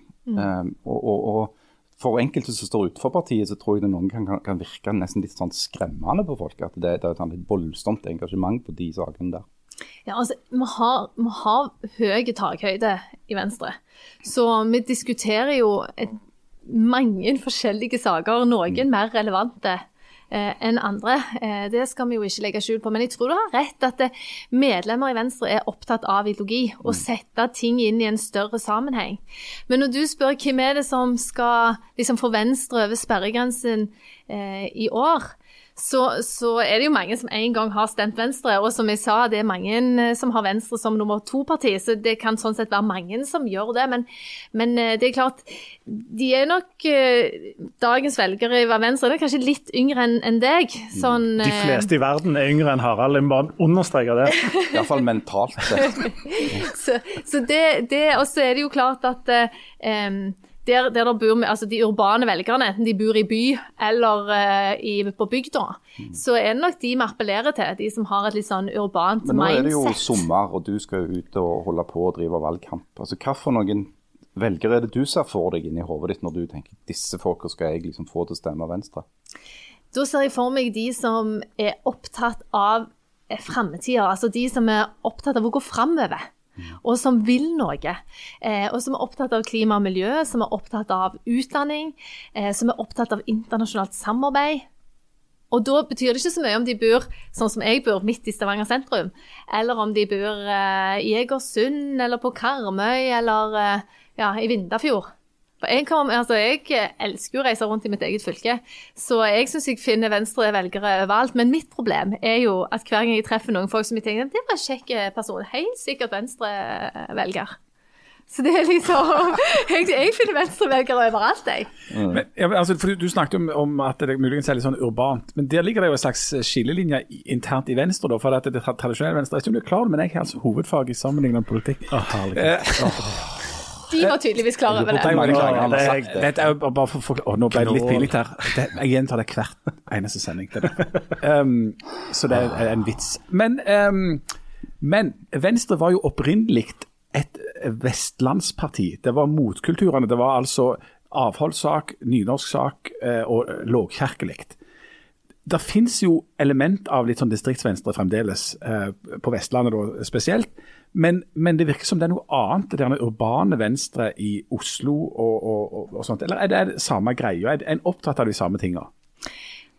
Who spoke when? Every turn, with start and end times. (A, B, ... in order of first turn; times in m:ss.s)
0:00.3-0:09.4 A
0:10.0-0:51.9 B
0:51.4-0:54.5 C
0:54.4-0:54.7 B
0:54.7-0:56.6 A
0:55.8-1:10.2 B
1:09.2-1:19.0 A
1:19.9-1:26.2 B
1:26.8-1:34.7 B
1:35.5-1:45.1 B
1:45.6-1:57.6 B
1:58.3-2:01.7 B
2:01.9-2:02.2 A
2:02.1-2:13.2 D
2:11.9-2:13.1 C
2:13.9-2:15.4 B
2:14.7-2:16.3 A
2:14.8-2:24.2 D
2:15.2-2:16.2 C
2:17.5-2:18.1 C
2:24.8-2:34.6 D
2:35.4-2:48.9 D